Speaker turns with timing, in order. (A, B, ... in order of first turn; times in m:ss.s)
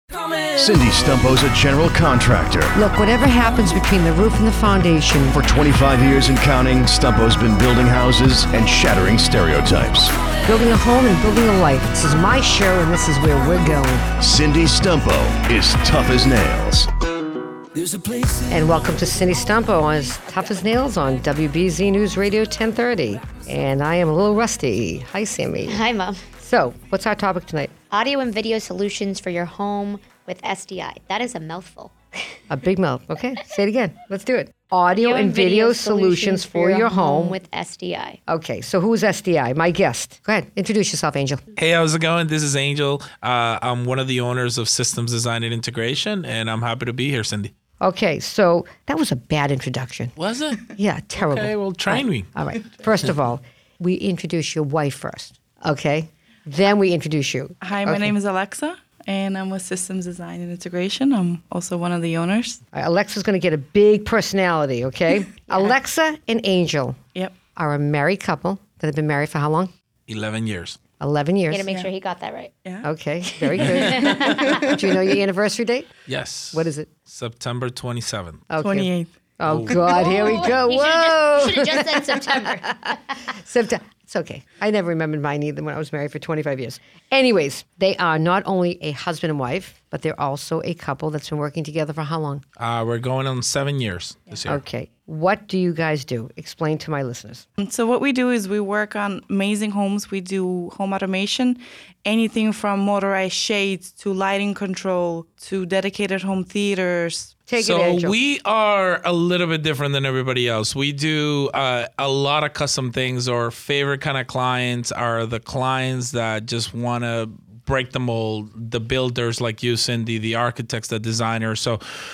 0:00.5-0:02.7 A
0:02.7-0:05.4 B
0:05.3-0:10.1 A
0:10.4-0:14.1 B
0:14.2-0:16.9 A
0:18.5-0:25.8 B
0:25.6-0:26.2 C
0:26.4-0:27.7 B
0:27.9-0:31.9 C
0:32.5-0:37.4 B
0:34.9-0:38.2 C
0:38.3-0:41.4 B
0:41.6-0:47.5 D
0:47.8-0:50.1 B
0:50.2-0:52.3 D
0:50.7-0:58.1 B
0:57.6-1:02.6 E
1:02.7-1:07.0 B
1:07.6-1:09.7 B
1:10.1-1:10.8 D
1:11.0-1:11.6 B
1:11.5-1:12.5 C
1:12.8-1:15.9 B
1:13.7-1:14.6 C
1:13.9-1:14.7 E
1:16.1-1:18.4 D
1:16.5-1:16.9 B
1:18.5-1:32.4 B
1:18.6-1:19.1 E
1:19.4-1:19.8 D
1:19.7-1:22.9 C
1:32.6-1:34.6 D
1:34.5-1:37.4 B
1:37.6-1:47.3 E
1:47.5-1:48.2 B
1:47.6-2:01.8 D